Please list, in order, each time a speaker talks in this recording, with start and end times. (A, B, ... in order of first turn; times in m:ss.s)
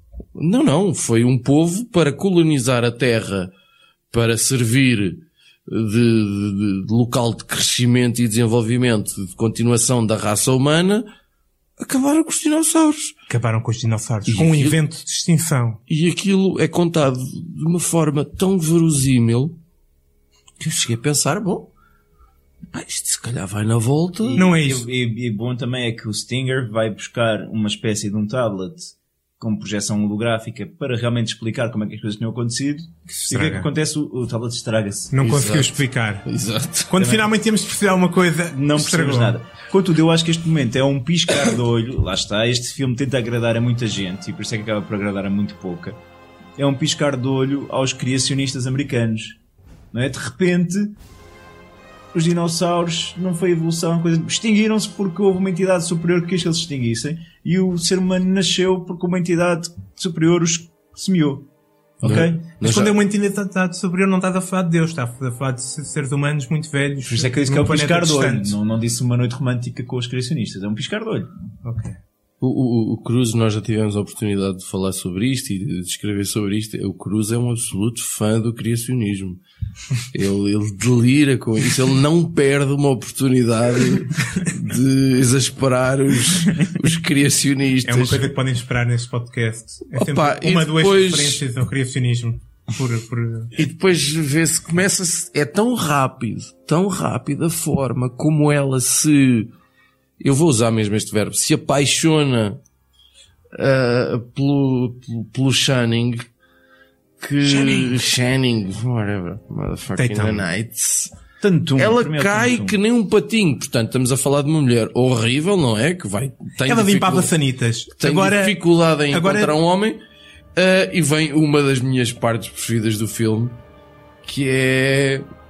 0:00.4-0:03.5 A
0:04.1-0:11.0 A
0:11.8-0:13.1 A
0:13.3-0:15.8 B
0:14.3-0:14.8 A
0:15.9-0:19.5 A
0:20.6-0:21.7 A
0:22.7-0:24.4 A
0:24.2-0:35.1 C
0:24.4-0:24.9 B
0:33.1-0:33.7 B
0:35.1-0:36.2 B
0:35.2-0:36.9 A
0:36.9-0:39.4 B
0:37.0-0:37.3 C
0:38.5-0:46.0 C
0:46.6-0:49.4 C
0:49.9-0:51.0 C
0:52.1-1:01.5 C
1:02.0-1:02.4 C
1:02.0-1:03.0 A
1:02.6-1:08.5 B
1:07.0-1:11.3 C
1:11.6-1:12.0 B
1:12.4-1:19.4 A
1:20.1-1:28.3 A
1:27.8-1:33.5 B
1:29.9-1:31.4 A
1:33.5-1:39.5 A
1:40.2-1:42.6 A
1:43.5-1:46.2 A
1:47.2-1:51.1 A
1:47.4-1:47.9 B
1:50.0-1:50.5 B
1:51.4-1:52.8 C
1:51.8-1:57.3 A
1:56.6-1:59.5 B
1:58.0-2:00.0 A
2:00.5-2:03.6 A
2:04.2-2:05.2 A